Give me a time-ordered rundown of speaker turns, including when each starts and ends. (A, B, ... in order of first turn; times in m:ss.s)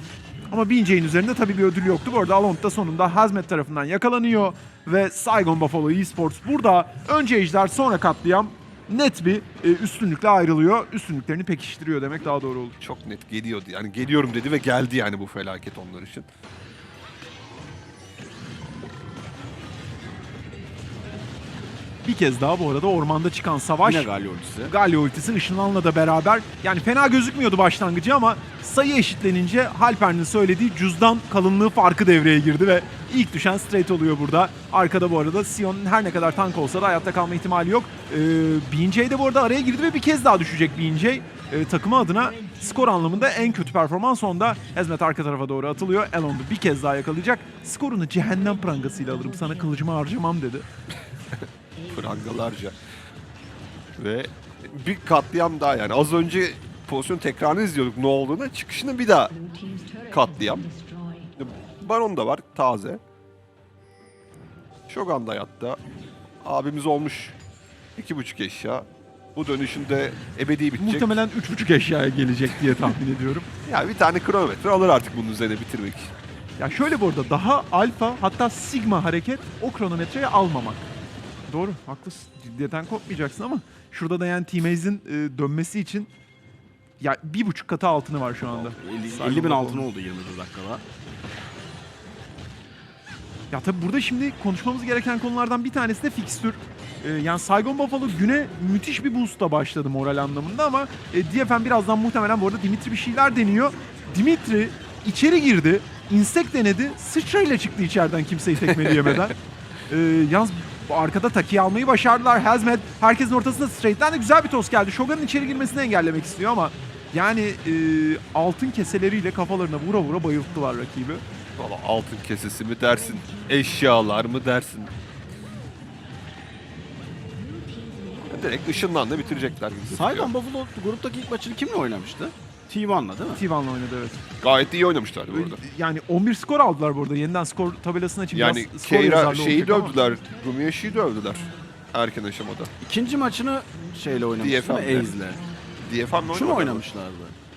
0:00.5-0:12.8 A
0:12.8-0:16.3 B
0:22.0-0:24.1 A
0:23.8-0:24.7 C
0:24.6-0:50.6 A
0:51.8-0:52.8 B
0:54.0-0:59.4 B
1:00.1-1:00.7 B
1:01.4-1:03.0 B
1:04.9-1:05.8 B
1:06.4-1:07.4 B
1:08.0-1:11.2 B
1:10.8-1:13.5 A
1:13.6-1:16.1 B
1:16.6-1:20.9 A
1:21.5-1:26.1 A
1:27.0-1:29.9 A
1:28.7-1:30.8 C
1:33.5-1:49.3 A
1:48.6-1:49.3 B
1:49.9-2:01.2 A
2:01.6-2:04.9 B
2:08.2-2:10.3 B
2:09.9-2:13.4 C
2:13.3-2:14.3 A
2:14.4-2:15.6 B
2:15.3-2:20.0 A
2:18.3-2:22.7 B
2:22.8-2:25.4 C
2:24.4-2:25.2 B
2:25.8-2:26.8 B
2:26.3-2:27.3 C